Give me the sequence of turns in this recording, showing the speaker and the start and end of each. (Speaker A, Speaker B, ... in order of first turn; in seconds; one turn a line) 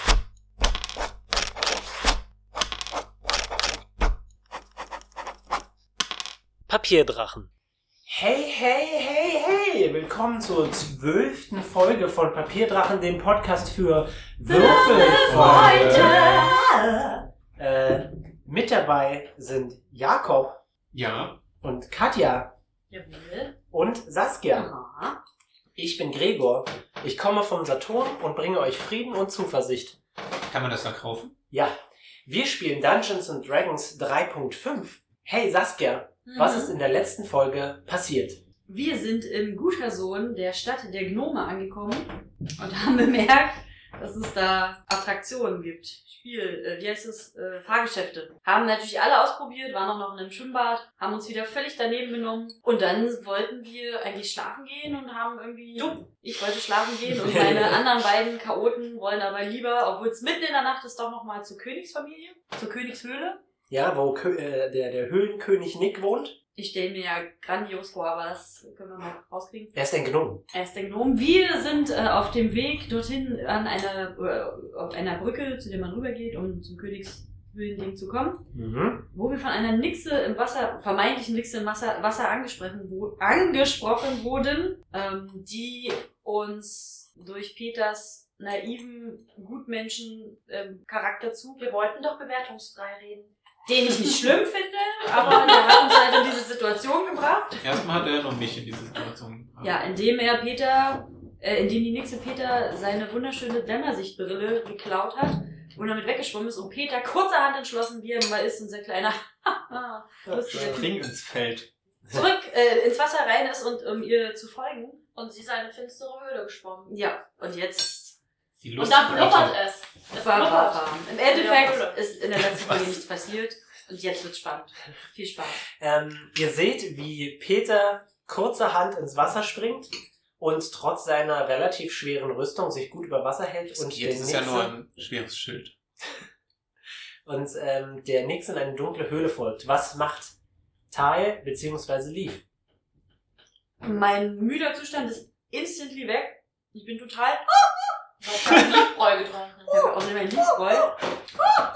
Speaker A: 6.7-7.5
Speaker A: 8.1-20.6
Speaker B: 14.5-17.1
Speaker C: 15.3-16.4
Speaker C: 20.9-21.4
Speaker A: 21.6-22.5
Speaker B: 22.9-23.5
Speaker A: 23.7-24.7
Speaker B: 24.5-25.2
Speaker A: 25.8-30.0
Speaker C: 30.5-31.3
Speaker A: 32.3-38.4
Speaker B: 36.3-36.7
Speaker B: 38.7-63.4
Speaker A: 57.2-57.8
Speaker A: 63.7-66.4
Speaker B: 66.6-69.7
Speaker A: 69.7-70.4
Speaker B: 70.5-78.5
Speaker A: 78.5-79.1
Speaker B: 79.1-91.7
Speaker D: 91.6-93.3
Speaker B: 93.7-97.6
Speaker C: 97.6-99.8
Speaker B: 99.6-110.9
Speaker C: 110.3-111.7
Speaker B: 112.1-115.0
Speaker D: 115.2-117.0
Speaker B: 116.9-118.2
Speaker C: 118.6-119.6
Speaker D: 118.8-122.0
Speaker B: 120.2-125.6
Speaker C: 122.5-123.0
Speaker A: 125.8-134.7
Speaker C: 133.7-135.8
Speaker A: 137.3-140.3
Speaker A: 140.9-142.4
Speaker B: 143.8-147.4
Speaker D: 148.2-149.9
Speaker B: 149.7-151.0